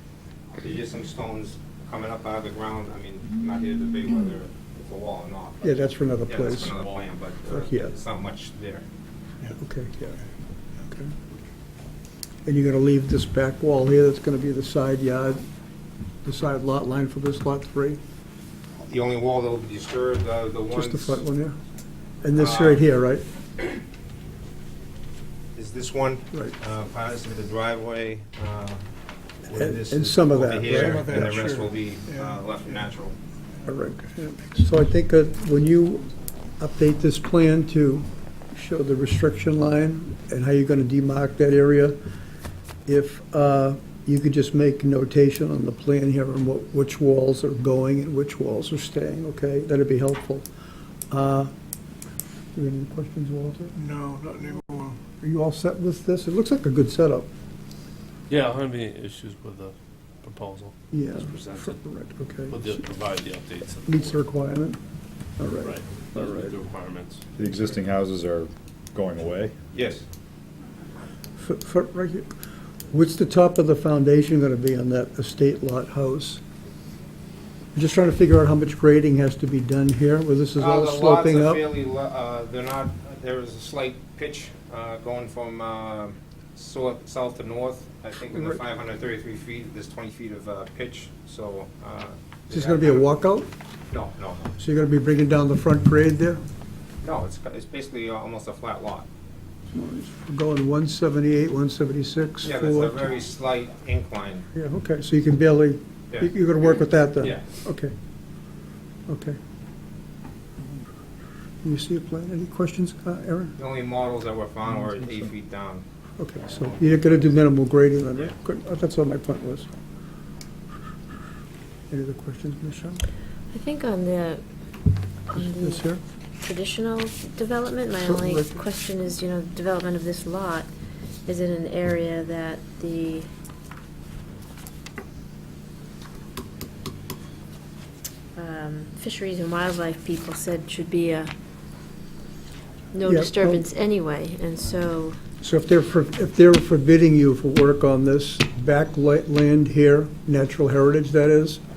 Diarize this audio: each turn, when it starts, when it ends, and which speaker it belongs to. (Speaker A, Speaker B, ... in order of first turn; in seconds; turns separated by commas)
Speaker A: 0.6-8.8, Speaker B: 5.6-6.7, Speaker B: 7.5-7.9, Speaker B: 9.4-10.2, Speaker B: 10.8-11.1, Speaker B: 12.4-15.4, Speaker B: 16.2-18.0, Speaker A: 18.9-21.2, Speaker B: 20.7-21.6, Speaker B: 22.2-23.2, Speaker A: 22.3-22.9, Speaker A: 25.6-28.8, Speaker A: 29.4-33.1, Speaker B: 29.5-31.4, Speaker C: 30.7-32.4, Speaker B: 33.6-42.0, Speaker B: 42.9-50.5, Speaker B: 51.1-51.5, Speaker B: 52.5-53.7, Speaker C: 53.8-55.0, Speaker B: 55.1-57.3, Speaker D: 58.3-61.8, Speaker B: 60.9-62.8, Speaker D: 62.5-64.2, Speaker B: 63.9-64.8, Speaker B: 65.4-66.5, Speaker D: 65.6-67.2, Speaker E: 67.4-69.5, Speaker A: 69.7-70.0, Speaker B: 71.4-72.3, Speaker B: 72.9-76.4, Speaker B: 77.7-81.7, Speaker A: 80.6-93.0, Speaker B: 88.3-88.6, Speaker B: 92.5-93.5, Speaker A: 93.9-94.5, Speaker B: 94.6-96.4, Speaker A: 97.0-99.1, Speaker B: 99.7-103.1, Speaker A: 102.4-104.5, Speaker B: 104.5-107.9, Speaker A: 107.2-107.5, Speaker B: 109.1-109.4, Speaker B: 111.6-113.5, Speaker A: 113.6-115.8, Speaker B: 114.8-115.1, Speaker B: 116.2-119.7, Speaker A: 116.4-117.3, Speaker B: 121.9-123.0, Speaker F: 123.5-124.4, Speaker F: 125.3-125.9, Speaker B: 125.3-126.0, Speaker F: 126.4-130.7, Speaker B: 128.0-128.6, Speaker F: 131.2-133.3, Speaker F: 138.3-141.3, Speaker F: 142.9-145.2, Speaker B: 143.0-143.6, Speaker B: 145.4-151.6